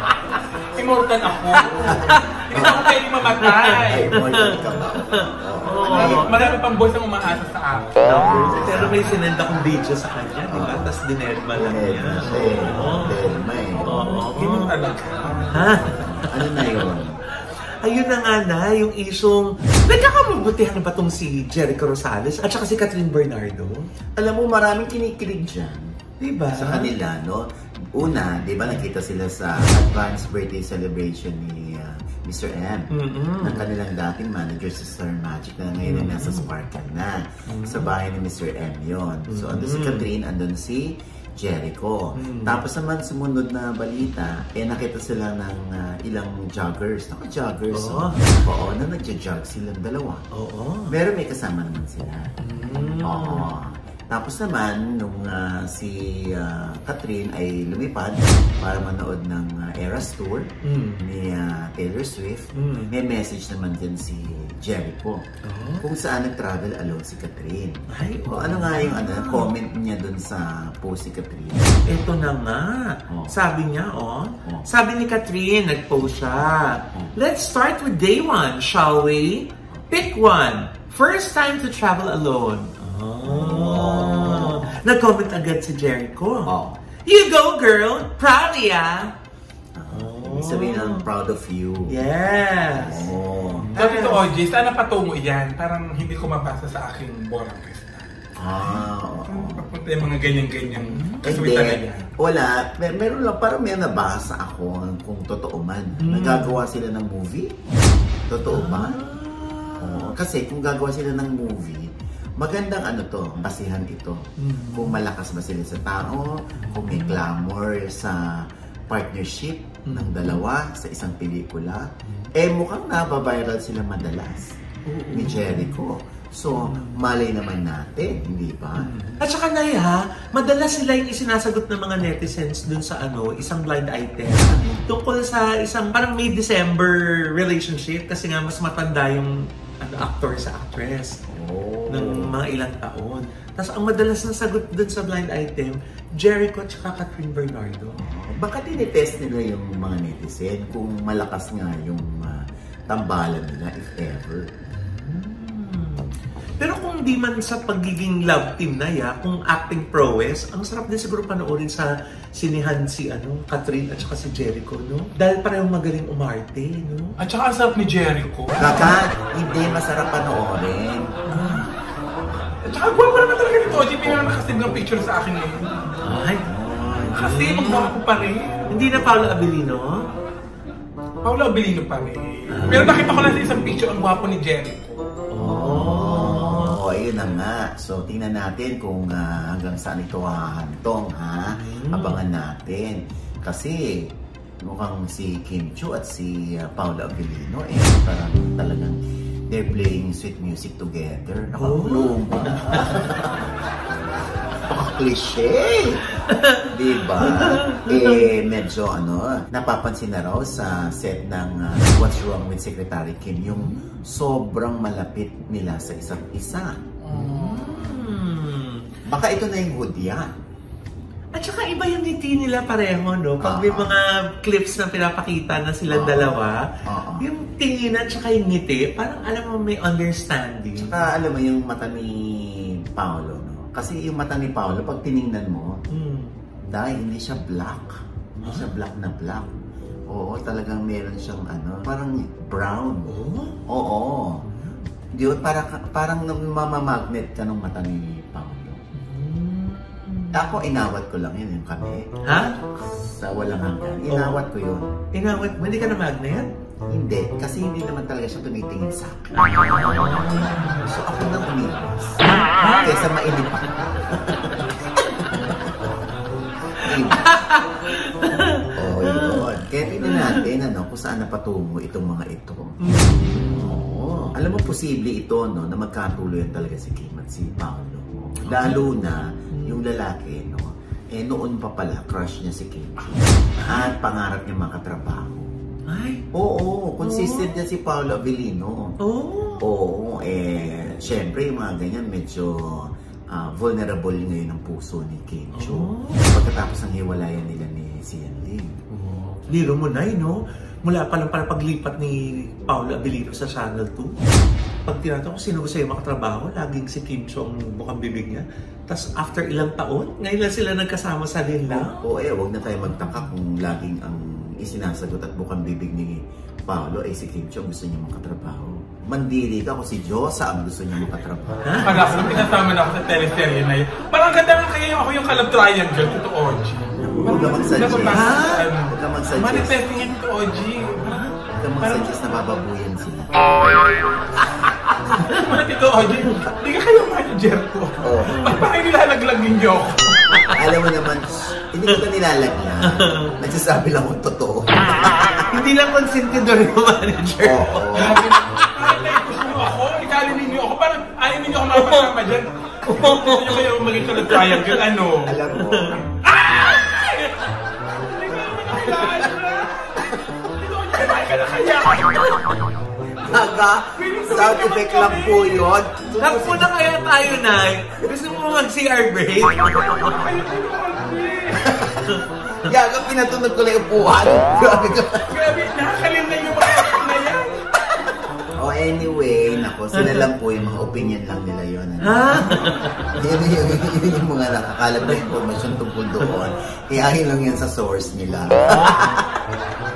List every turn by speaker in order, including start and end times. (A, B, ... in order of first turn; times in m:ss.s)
0:00.7-0:04.2 A
0:01.5-0:06.5 B
0:01.9-0:02.9 C
0:03.8-0:06.5 C
0:05.9-0:08.3 A
0:08.0-0:13.2 B
0:08.2-0:09.2 C
0:10.5-0:10.8 C
0:11.5-0:14.0 C
0:12.6-0:12.9 A
0:13.8-0:15.6 A
0:13.8-0:14.7 B
0:15.5-0:16.8 B
0:15.7-0:17.2 C
0:17.4-0:23.9 B
0:24.2-0:26.0 C
0:26.2-0:26.9 B
0:26.5-0:32.9 C
0:32.9-0:33.7 B
0:33.4-0:50.2 C
0:35.8-0:36.5 B
0:37.5-0:37.9 B
0:39.3-0:40.1 B
0:42.2-0:42.6 B
0:47.7-0:48.4 B
0:50.3-0:51.0 B
0:50.9-0:52.4 C
0:52.4-0:53.5 B
0:52.9-1:05.2 C
1:00.6-1:01.0 B
1:02.6-1:02.9 B
1:05.4-1:05.9 B
1:05.8-1:11.9 C
1:07.9-1:09.5 B
1:11.9-1:26.5 B
1:13.1-1:13.4 C
1:23.2-1:24.8 C
1:26.5-1:26.8 C
1:27.0-1:29.1 B
1:29.8-1:32.0 C
1:29.9-1:31.1 B
1:31.9-1:34.2 B
1:32.7-1:33.7 C
1:33.8-1:38.1 A
1:38.4-1:39.7 C
1:39.3-1:42.1 A
1:40.8-1:41.4 B
1:41.2-1:47.6 C
1:46.0-1:46.6 B
1:48.3-1:49.0 C
1:48.5-1:50.2 B
1:49.8-2:04.6 C
1:54.4-1:55.0 B
1:56.6-1:57.2 B
1:59.9-2:00.4 B
2:02.1-2:02.3 B
2:04.9-2:05.8 B
2:05.1-2:08.9 C
2:06.5-2:07.0 B
2:08.8-2:21.2 B
2:21.3-2:22.4 C
2:21.9-2:28.0 B
2:28.0-2:34.5 C
2:34.7-2:36.1 B
2:36.6-2:47.2 B
2:47.2-2:48.9 A
2:48.6-2:51.2 C
2:51.3-2:51.7 B
2:51.3-2:51.7 A
2:52.6-2:55.9 A
2:56.0-2:56.4 B
2:56.4-2:57.2 C
2:57.0-2:57.9 B
2:57.2-2:58.7 A
2:58.7-3:00.0 B
3:01.2-3:05.0 A
3:02.5-3:03.1 B
3:05.3-3:06.8 B
3:05.4-3:23.5 C
3:11.5-3:12.2 B
3:21.6-3:23.0 B
3:24.6-3:26.0 C
3:26.2-3:28.3 B
3:26.6-3:36.8 C
3:33.4-3:34.0 B
3:37.0-3:38.1 A
3:37.1-3:38.8 B
3:39.1-3:40.3 C
3:41.4-3:46.7 B
3:43.4-3:44.0 C
3:45.9-3:47.2 C
3:47.2-3:51.0 B
3:50.8-3:55.8 C
3:55.9-3:56.3 B
3:56.7-3:59.6 C
3:58.4-3:58.7 B
4:00.1-4:03.1 C
4:03.1-4:03.6 B
4:03.7-4:04.5 C
4:04.4-4:04.8 B
4:05.1-4:08.8 C
4:09.0-4:10.5 B
4:10.3-4:14.9 C
4:12.2-4:12.6 B
4:14.1-4:14.4 B
4:15.1-4:16.5 B
4:16.9-4:26.0 C
4:19.8-4:20.9 B
4:22.3-4:22.9 B
4:26.7-4:27.4 C
4:26.8-4:29.5 B
4:28.8-4:32.8 C
4:30.0-4:30.4 B
4:32.8-4:33.8 B
4:33.3-4:45.5 C
4:38.4-4:38.8 B
4:39.5-4:39.8 B
4:43.6-4:43.9 B
4:45.9-4:46.2 B
4:46.3-4:49.0 C
4:47.0-4:47.6 B
4:49.0-4:49.7 B
4:49.6-4:58.8 C
4:55.5-4:56.3 B
4:58.9-5:04.2 B
5:04.9-5:12.0 B
5:11.7-5:22.4 C
5:21.6-5:22.4 B
5:21.8-5:31.2 A
5:27.0-5:30.2 C
5:28.1-5:28.5 B
5:31.0-5:31.4 B
5:31.5-5:34.5 C
5:31.8-5:32.2 A
5:35.1-5:35.5 B
5:35.2-5:40.4 A
5:38.0-5:38.6 C
5:38.2-5:38.7 B
5:40.3-5:40.6 B
5:40.5-5:45.5 C
5:42.9-5:43.3 B
5:45.5-5:48.7 B
5:47.4-5:48.2 C
5:48.0-5:55.4 A
5:51.8-5:52.1 B
5:52.8-5:54.8 B
5:55.2-5:56.0 C
5:55.6-5:57.5 B
5:56.1-5:57.4 A
5:57.9-6:02.5 A
5:58.7-5:59.3 B
6:00.0-6:00.2 C
6:02.1-6:02.5 B
6:03.2-6:06.8 C
6:04.0-6:05.8 A
6:06.2-6:10.3 B
6:09.6-6:11.8 A
6:11.6-6:15.4 C
6:15.3-6:18.0 A
6:18.6-6:29.3 C
6:20.0-6:20.2 B
6:22.0-6:23.0 B
6:28.8-6:29.1 B